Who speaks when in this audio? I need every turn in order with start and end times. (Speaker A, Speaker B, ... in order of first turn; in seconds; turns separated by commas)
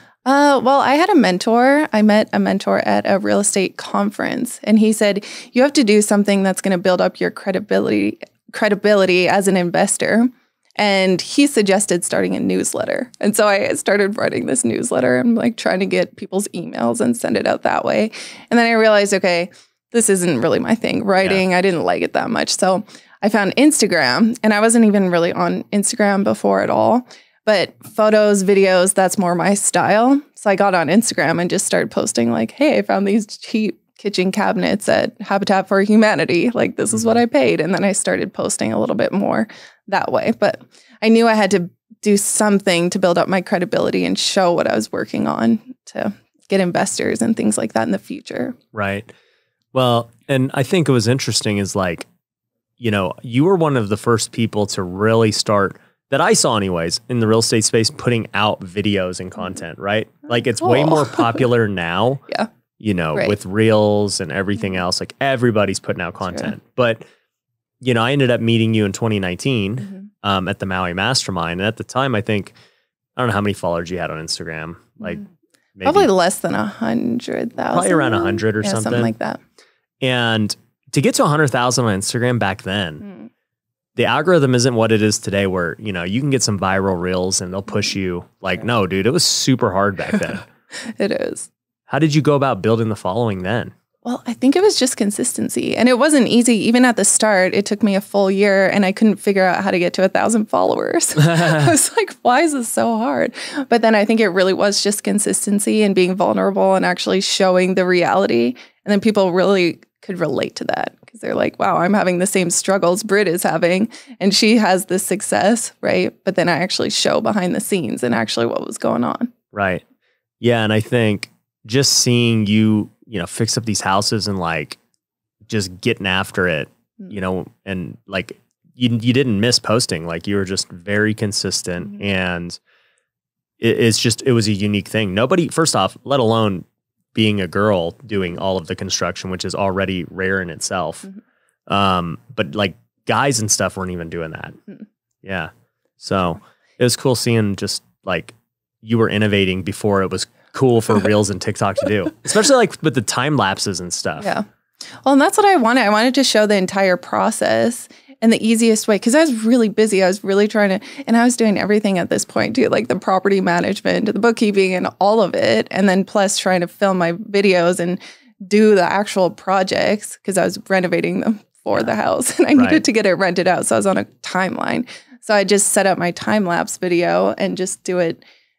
Speaker A: 0.2-48.5, Speaker B: 48.7-49.1, Speaker B: 49.7-52.1, Speaker B: 52.8-62.2, Speaker A: 60.6-61.4, Speaker B: 62.8-67.0, Speaker B: 67.8-72.5, Speaker B: 73.2-75.2, Speaker B: 75.8-76.1, Speaker A: 75.8-79.4, Speaker B: 77.7-79.1, Speaker B: 80.0-83.1, Speaker B: 84.0-90.4, Speaker A: 90.8-91.5, Speaker B: 91.9-93.7, Speaker A: 94.0-119.3, Speaker B: 101.2-101.6, Speaker B: 119.5-119.8, Speaker B: 120.4-124.8, Speaker B: 125.5-132.6, Speaker B: 133.6-141.1, Speaker B: 141.7-144.6, Speaker B: 145.2-154.3, Speaker A: 154.2-154.4, Speaker A: 155.0-178.2, Speaker B: 172.5-172.8